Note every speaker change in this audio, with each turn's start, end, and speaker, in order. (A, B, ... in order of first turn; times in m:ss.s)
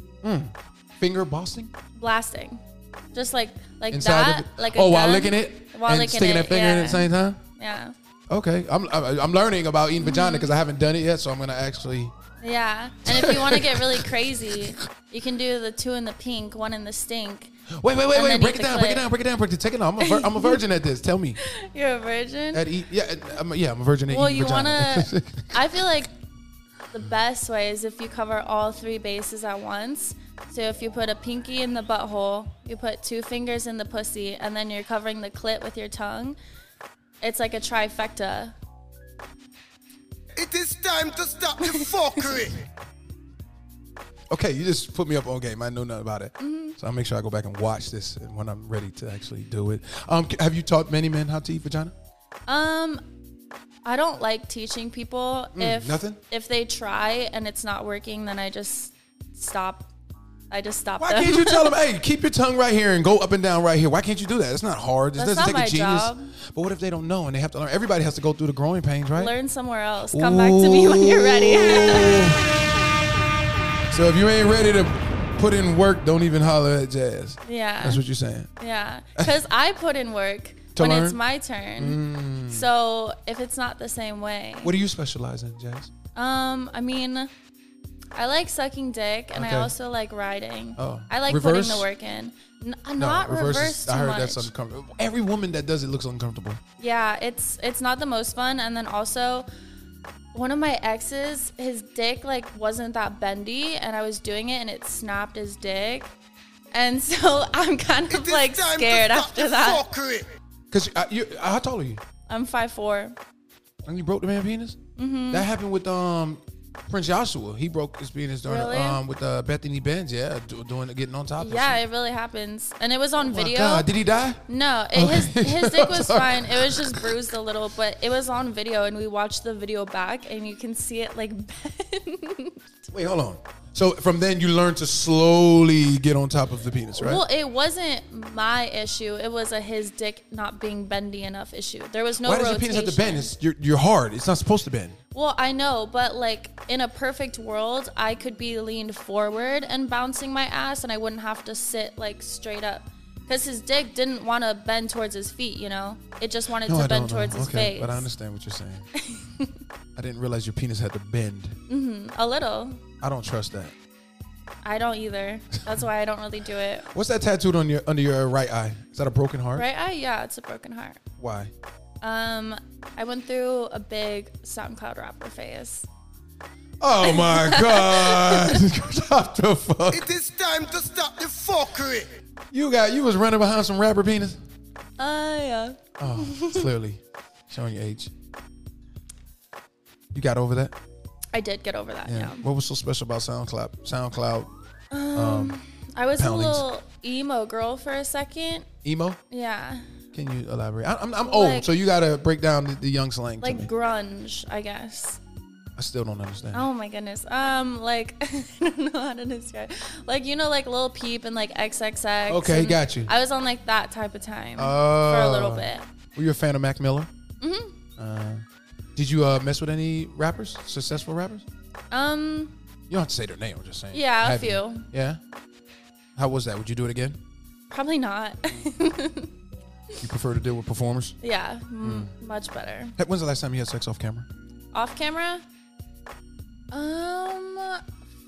0:00.2-0:01.7 A
0:01.9-0:02.6 B
0:03.1-0:07.9 B
0:03.9-0:07.4 A
0:08.3-0:12.1 A
0:10.0-0:10.5 B
0:12.4-0:17.5 B
0:13.0-0:14.6 A
0:17.7-0:21.4 A
0:18.1-0:19.1 B
0:20.0-0:20.6 B
0:21.4-0:22.6 B
0:22.5-0:25.7 A
0:24.1-0:26.1 B
0:26.9-0:36.4 B
0:37.2-0:38.5 B
0:40.4-0:42.6 C
0:44.3-0:51.9 A
0:46.4-0:46.8 B
0:52.5-0:53.0 B
0:53.8-0:59.9 B
0:55.5-0:56.2 A
1:00.5-1:01.7 B
1:01.0-1:09.3 A
1:05.2-1:06.3 B
1:09.2-1:12.3 B
1:10.1-1:12.6 A
1:13.9-1:18.5 A
1:17.4-1:18.0 B
1:18.6-1:24.8 B
1:20.7-1:21.2 A
1:21.8-1:22.7 A
1:24.6-1:25.9 A
1:26.1-1:27.3 B
1:28.2-1:34.5 B
1:29.3-1:29.7 A
1:30.8-1:31.9 A
1:33.0-1:36.6 A
1:36.8-1:39.5 B
1:40.3-1:46.1 B
1:46.7-1:49.8 B
1:48.1-1:50.3 C
1:50.7-1:52.0 A
1:52.3-1:53.2 B
1:53.8-1:54.8 A
1:55.0-1:55.5 B
1:55.3-2:01.8 A
1:58.4-1:59.0 B
2:01.4-2:03.9 B
2:03.2-2:07.2 A
2:04.5-2:12.6 B
2:12.9-2:17.2 A
2:17.0-2:23.3 B
2:22.2-2:25.0 A
2:25.1-2:38.1 B
2:36.6-2:38.9 A
2:39.0-2:39.6 B
2:40.0-2:41.6 A
2:41.7-2:42.8 B
2:43.0-2:43.7 A
2:44.6-2:46.9 B
2:46.9-2:49.7 A
2:49.5-2:51.0 B
2:51.2-2:51.5 A
2:52.0-2:55.9 B
2:56.8-3:00.1 A
2:57.0-2:58.6 B
2:59.9-3:02.1 C
3:02.5-3:04.4 A
3:05.0-3:06.7 B
3:06.0-3:08.1 A
3:10.1-3:10.7 A
3:11.3-3:12.4 B
3:12.0-3:14.5 A
3:14.9-3:18.7 B
3:15.1-3:15.6 A
3:16.2-3:16.6 A
3:18.8-3:19.2 A
3:19.3-3:19.9 B
3:20.1-3:23.7 A
3:21.2-3:21.7 B
3:23.4-3:25.2 B
3:25.8-3:26.7 A
3:26.5-3:35.8 B
3:32.3-3:33.1 A
3:34.6-3:37.1 A
3:37.4-3:37.8 B
3:38.0-3:38.4 A
3:39.0-3:41.4 A
3:41.9-3:42.5 B
3:42.9-3:45.2 A
3:43.9-3:44.9 B
3:46.2-3:47.2 A
3:47.7-3:49.3 B
3:50.0-3:51.2 A
3:51.2-3:53.0 B
3:51.8-3:52.1 A
3:53.0-3:54.3 A
3:54.7-3:55.4 B
3:56.7-3:57.8 B